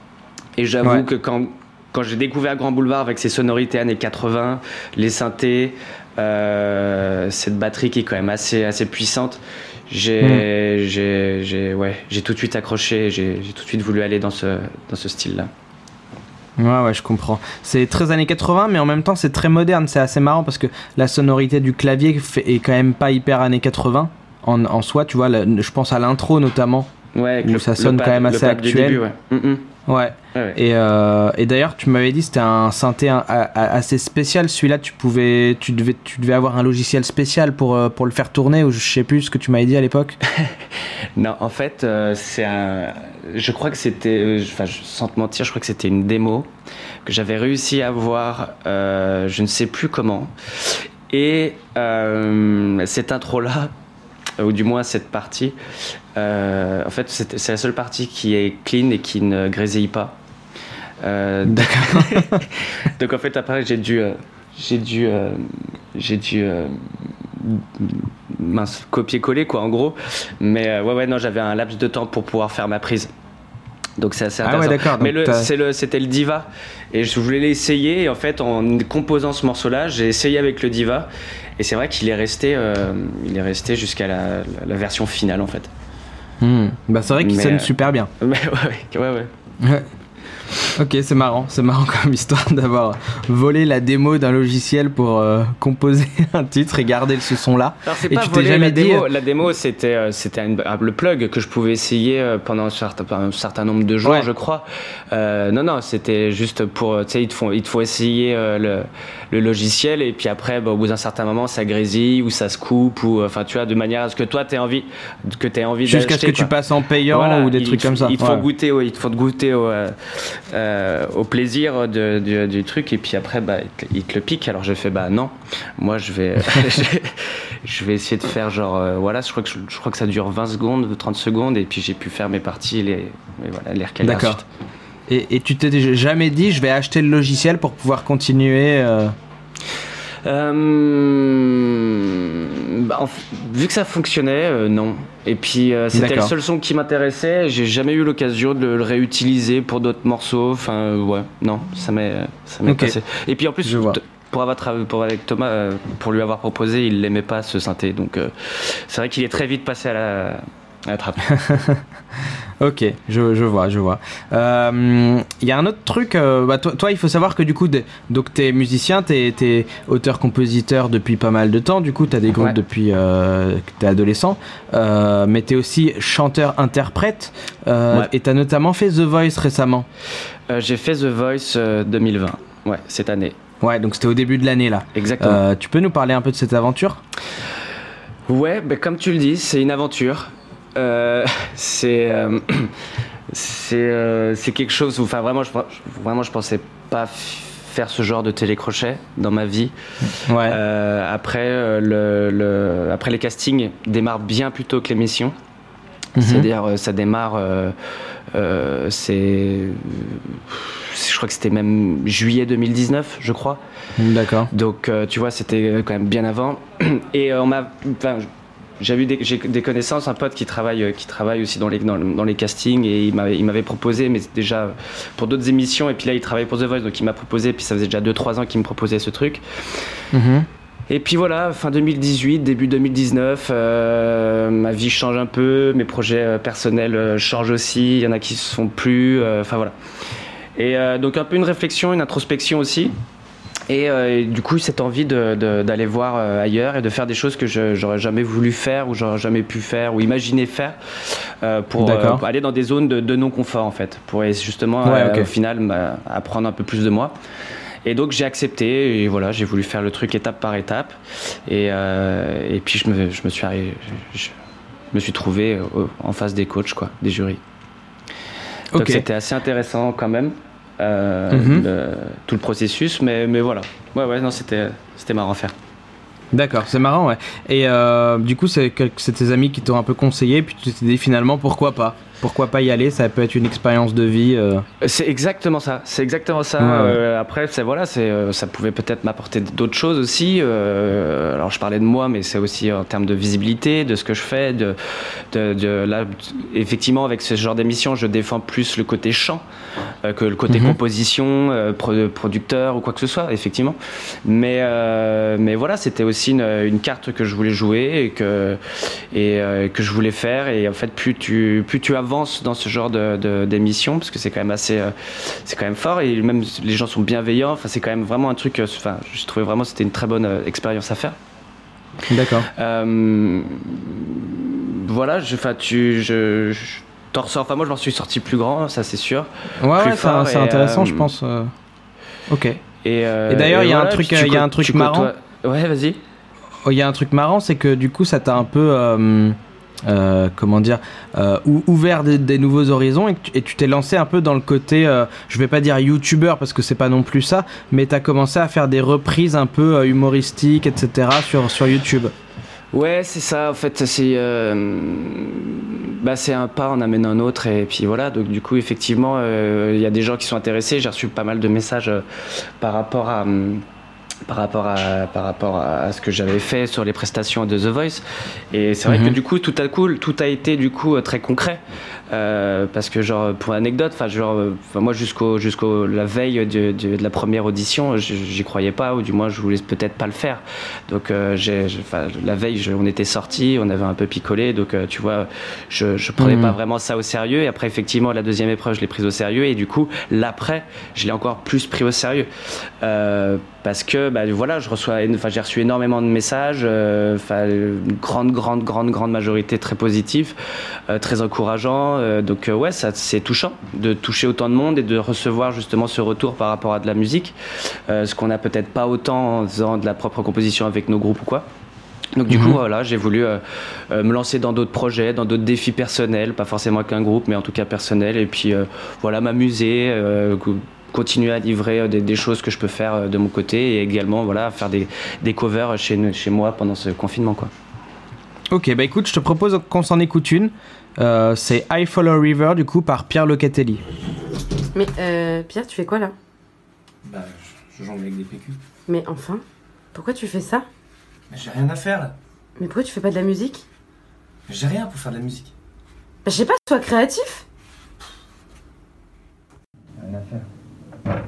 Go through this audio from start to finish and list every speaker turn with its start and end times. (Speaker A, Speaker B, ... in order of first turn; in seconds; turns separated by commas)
Speaker A: 0.6-15.5, Speaker B: 10.2-10.5, Speaker B: 16.6-26.9, Speaker A: 27.1-29.8, Speaker B: 27.4-29.0, Speaker B: 29.9-40.2, Speaker A: 30.3-30.6, Speaker A: 41.2-46.5, Speaker A: 47.0-53.7, Speaker A: 54.4-55.6, Speaker A: 56.2-60.2, Speaker A: 61.0-66.8, Speaker B: 61.5-62.4, Speaker A: 67.4-73.1, Speaker A: 74.0-85.7, Speaker B: 74.4-75.5, Speaker B: 86.4-88.1, Speaker A: 87.2-89.3, Speaker B: 89.6-89.9, Speaker B: 90.8-99.1, Speaker A: 97.8-134.4, Speaker B: 115.9-118.5, Speaker B: 134.0-134.4, Speaker B: 135.1-139.2, Speaker A: 140.2-161.3, Speaker B: 145.9-146.3, Speaker B: 152.7-152.9, Speaker B: 153.6-154.0, Speaker B: 161.3-161.8, Speaker B: 162.6-179.9, Speaker A: 180.5-183.4, Speaker B: 183.6-187.0, Speaker A: 184.9-185.4, Speaker A: 188.3-192.7, Speaker A: 193.3-199.8, Speaker B: 200.1-200.6, Speaker A: 200.3-205.4, Speaker B: 206.2-206.5, Speaker A: 206.2-207.8, Speaker A: 208.3-213.6, Speaker B: 214.0-214.5, Speaker A: 214.5-218.3, Speaker A: 218.8-229.4, Speaker B: 230.1-230.5, Speaker A: 230.9-239.7, Speaker A: 240.6-242.9, Speaker A: 243.7-250.8, Speaker A: 251.4-257.1, Speaker B: 251.8-252.2, Speaker B: 254.8-255.3, Speaker A: 257.9-261.0, Speaker A: 261.5-264.3, Speaker A: 264.9-267.4, Speaker B: 268.7-269.1, Speaker A: 268.8-275.6, Speaker B: 271.3-271.7, Speaker B: 276.3-284.6, Speaker A: 284.8-294.8, Speaker B: 286.6-287.0, Speaker A: 295.3-299.4, Speaker A: 300.1-308.6, Speaker B: 300.5-300.8, Speaker A: 309.1-321.2, Speaker B: 322.1-322.5, Speaker A: 322.4-331.1, Speaker B: 329.6-331.5, Speaker B: 332.3-332.6, Speaker A: 332.8-336.0, Speaker B: 333.3-335.1, Speaker B: 336.6-352.1, Speaker A: 352.7-362.1, Speaker A: 362.6-363.6, Speaker A: 364.3-392.3, Speaker B: 368.9-369.2, Speaker B: 386.2-386.6, Speaker A: 392.8-400.4, Speaker A: 400.9-407.4, Speaker A: 407.9-411.5, Speaker A: 412.2-427.5, Speaker B: 412.3-412.6, Speaker B: 428.5-433.8, Speaker C: 434.8-436.1, Speaker D: 437.1-438.6, Speaker C: 438.9-439.4, Speaker C: 439.9-440.7, Speaker D: 441.3-442.1, Speaker C: 442.6-443.6, Speaker D: 444.5-445.5, Speaker C: 446.2-447.4, Speaker D: 450.0-450.5